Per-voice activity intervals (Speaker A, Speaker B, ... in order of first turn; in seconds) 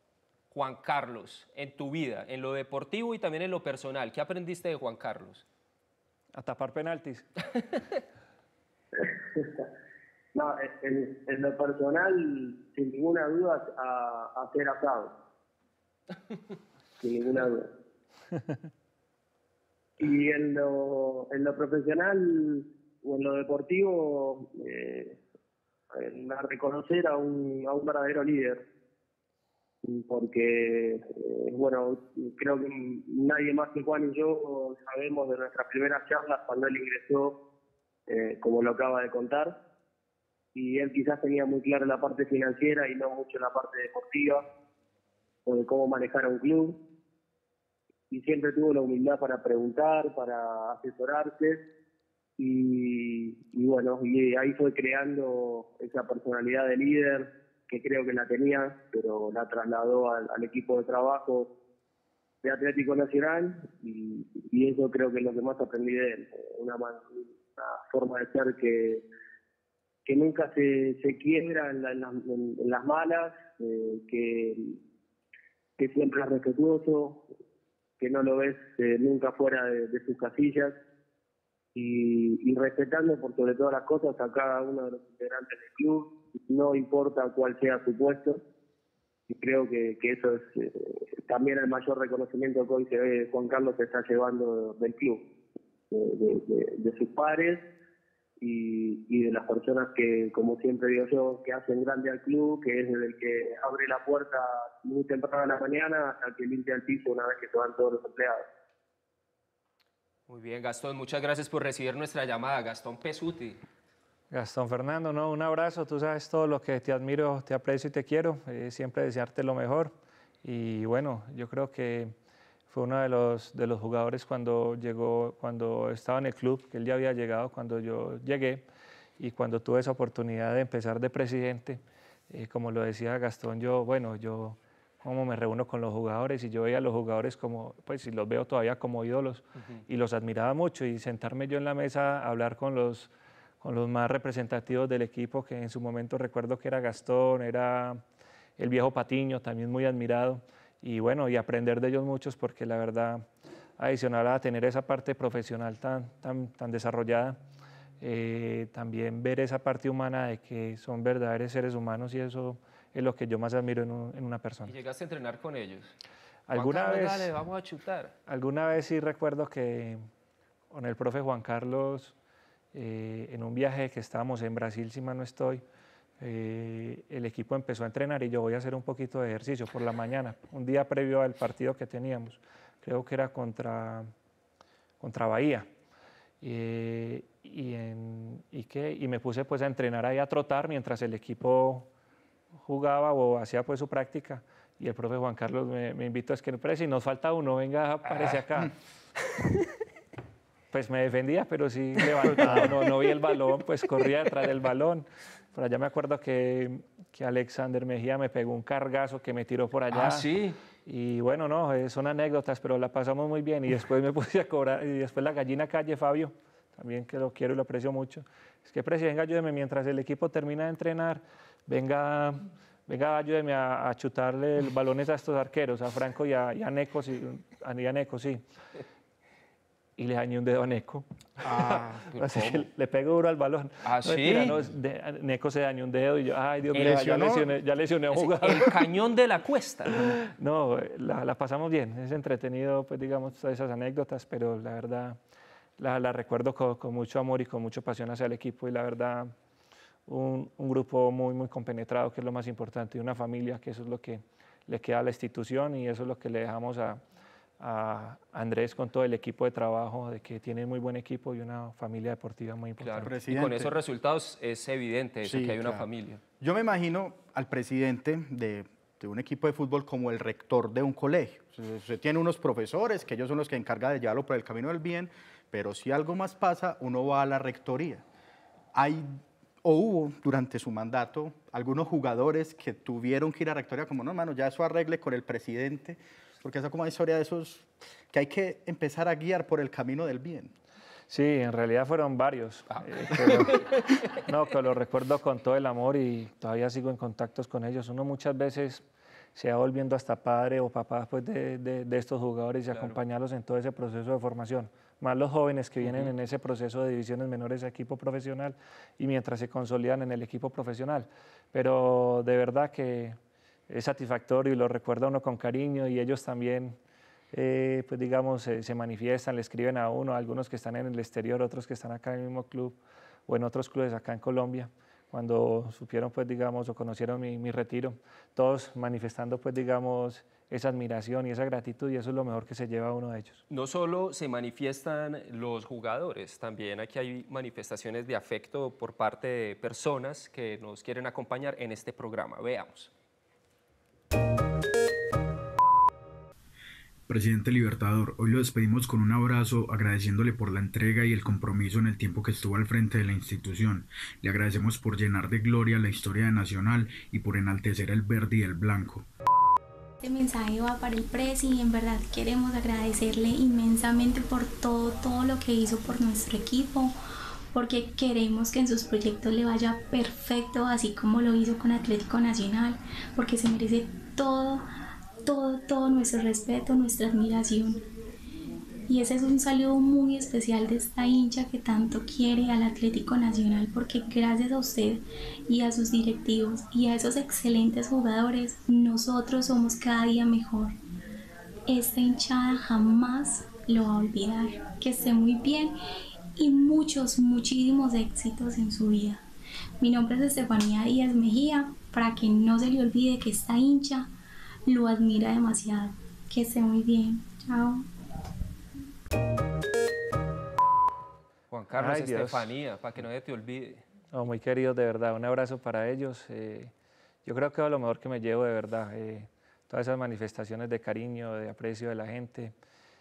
Speaker A: 0.5-5.4, 110.3-113.6, 139.6-139.8, 164.7-165.9, 166.5-168.1, 198.1-198.4, 202.2-202.7, 209.9-210.6, 232.1-232.7, 233.8-234.6, 236.7-237.4, 238.1-240.2, 262.8-266.2, 292.7-293.8, 302.7-303.0, 305.8-306.1, 333.5-342.9, 411.5-413.8
Speaker B: 6.3-7.3, 114.3-122.1, 122.7-128.6, 129.2-143.1, 143.6-148.0, 148.6-153.2, 153.8-157.4, 158.0-164.7, 166.5-167.3, 168.3-170.0, 170.7-172.1, 172.7-175.6, 176.2-184.1, 185.0-185.7, 186.4-191.9, 192.6-198.7, 200.7-210.3, 210.8-228.4, 230.0-238.8, 240.1-245.2, 245.8-249.3, 250.1-257.0, 257.6-263.1, 291.1-298.8, 299.3-313.2, 313.7-316.8, 317.3-333.4, 411.7-412.5, 414.1-416.7, 417.2-422.5
Speaker C: 9.0-9.7, 10.3-15.1, 17.0-17.7, 20.0-25.2, 25.9-28.6, 29.8-37.4, 38.1-39.5, 40.5-44.4, 45.5-46.8, 48.1-51.6, 52.4-61.5, 62.4-69.0, 70.0-74.8, 75.8-77.2, 78.0-80.7, 81.7-88.4, 89.3-95.2, 95.9-97.6, 98.4-108.5
Speaker D: 231.4-232.0, 236.7-237.5, 263.0-263.7, 265.2-265.9, 266.4-278.0, 278.7-290.5
Speaker E: 347.1-359.1
Speaker F: 360.0-366.9, 367.5-374.6, 375.2-377.8, 378.9-390.7, 391.7-395.7, 396.4-399.2, 399.8-404.1, 404.6-407.9